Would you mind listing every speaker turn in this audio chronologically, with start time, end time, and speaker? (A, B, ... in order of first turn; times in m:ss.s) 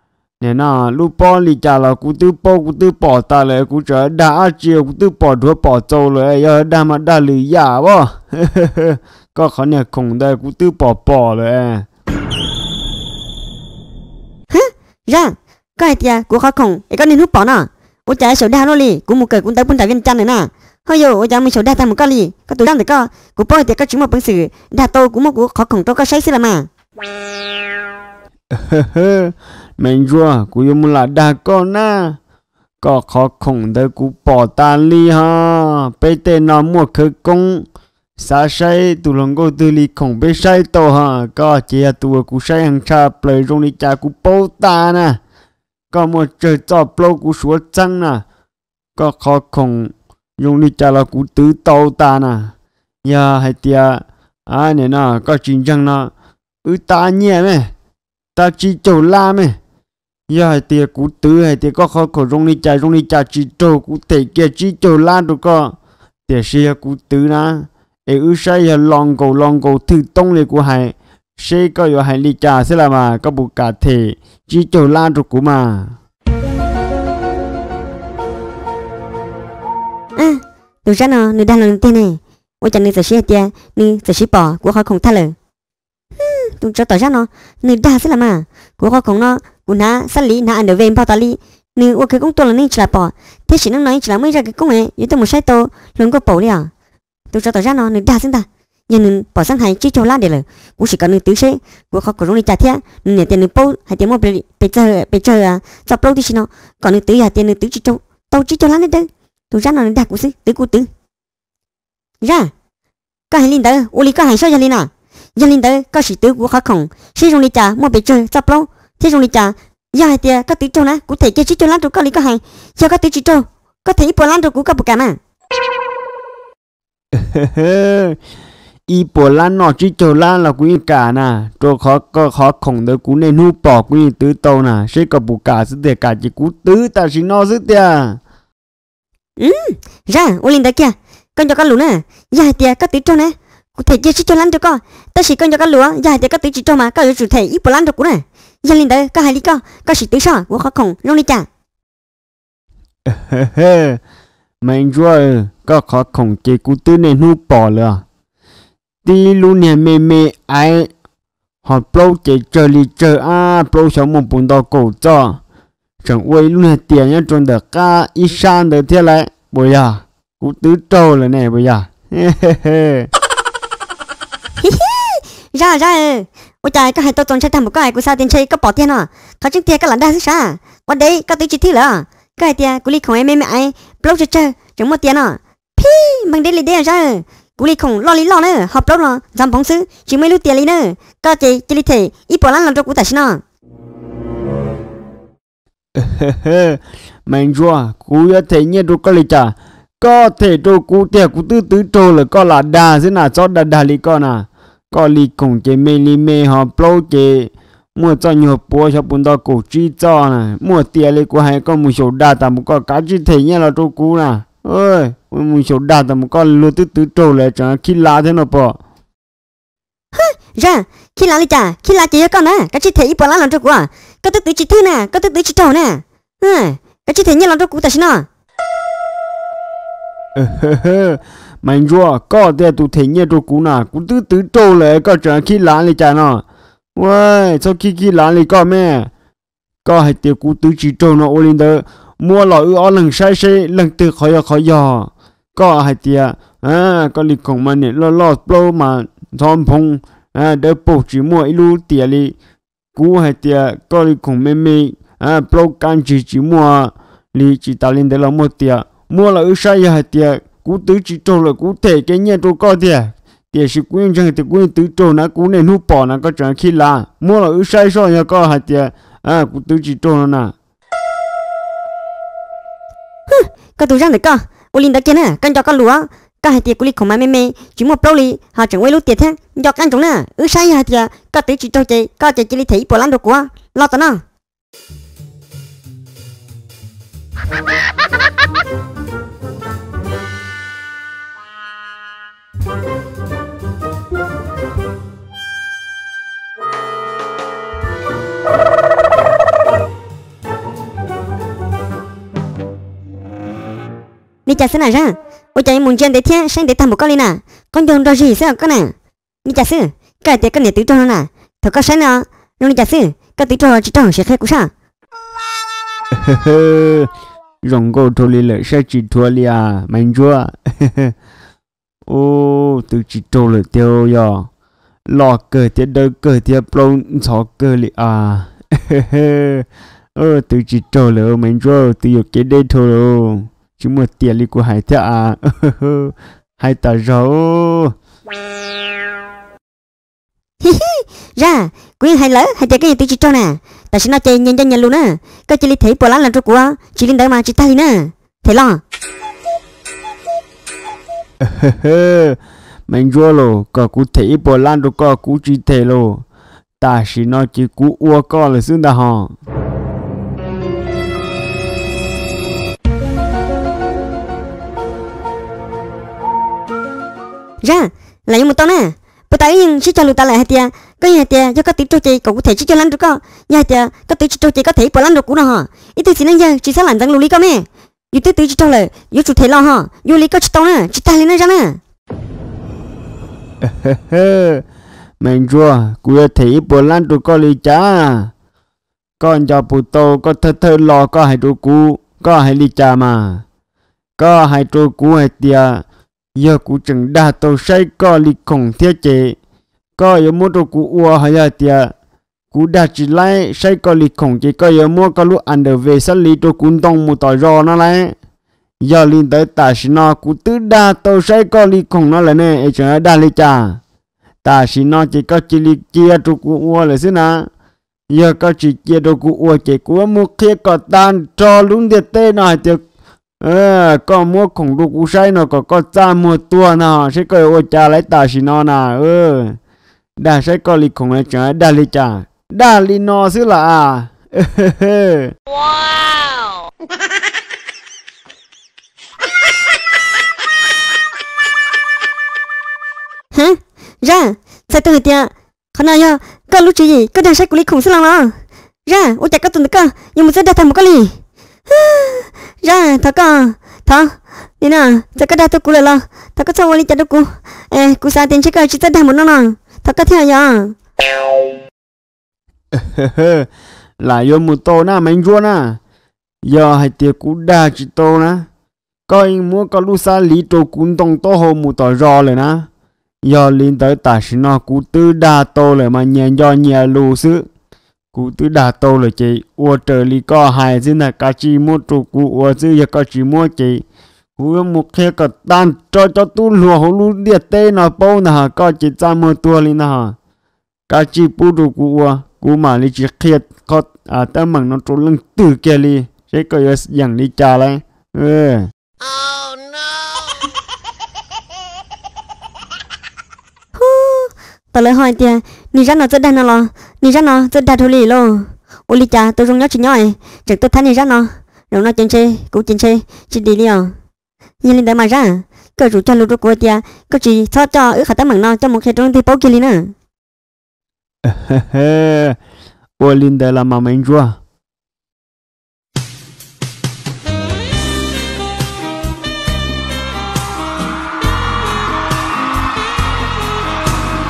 0:00.4-0:11.9 A
0:14.5-0:26.7 B
0:28.5-0:32.2 A
0:32.8-0:45.2 A
0:45.9-0:48.2 A
0:49.0-0:56.1 A
0:56.6-0:57.7 A
0:58.4-0:59.6 A
1:00.3-1:05.8 A
1:06.3-1:16.0 A
1:20.2-1:25.4 B
1:26.2-1:36.7 B
1:37.3-1:50.9 B
1:52.2-1:52.5 B
1:53.3-2:05.2 B
2:07.1-2:08.2 A
2:08.9-2:18.2 A
2:19.4-2:31.5 B
2:33.1-2:34.0 A
2:34.6-2:38.0 A
2:39.0-2:40.9 A
2:41.6-2:45.4 A
2:46.0-2:53.1 A
2:54.6-3:13.4 B
3:16.0-3:38.8 A
3:40.1-3:48.3 B
3:50.4-3:56.4 A
3:57.0-3:59.1 A
3:59.8-4:12.4 A
4:13.0-4:30.6 A
4:33.3-4:44.2 B
5:04.5-5:14.7 B
5:16.2-5:17.1 A
5:17.6-5:21.1 A
5:22.1-5:24.5 A
5:25.1-5:37.9 A
5:40.6-5:48.8 B
5:51.4-5:56.2 A
5:56.8-5:59.3 A
6:07.6-6:21.8 B
6:23.6-6:24.6 A
6:25.2-6:28.3 A
6:29.2-6:33.4 A
6:34.2-6:39.4 A
6:40.0-6:41.9 A
6:42.5-6:48.2 A
6:48.8-6:53.8 A
6:54.4-6:57.5 A
6:58.1-7:02.8 A
7:03.4-7:09.6 A
7:10.2-7:15.3 A
7:23.3-7:40.8 B
7:42.7-7:43.5 A
7:44.0-7:45.8 A
7:46.4-7:48.5 A
7:49.1-7:52.7 A
7:53.2-7:57.5 A
7:58.1-8:03.8 A
8:04.4-8:10.2 A
8:10.9-8:18.7 A
8:23.8-8:34.0 B
8:34.6-8:39.9 B
8:41.2-8:42.4 A
8:43.0-8:44.4 A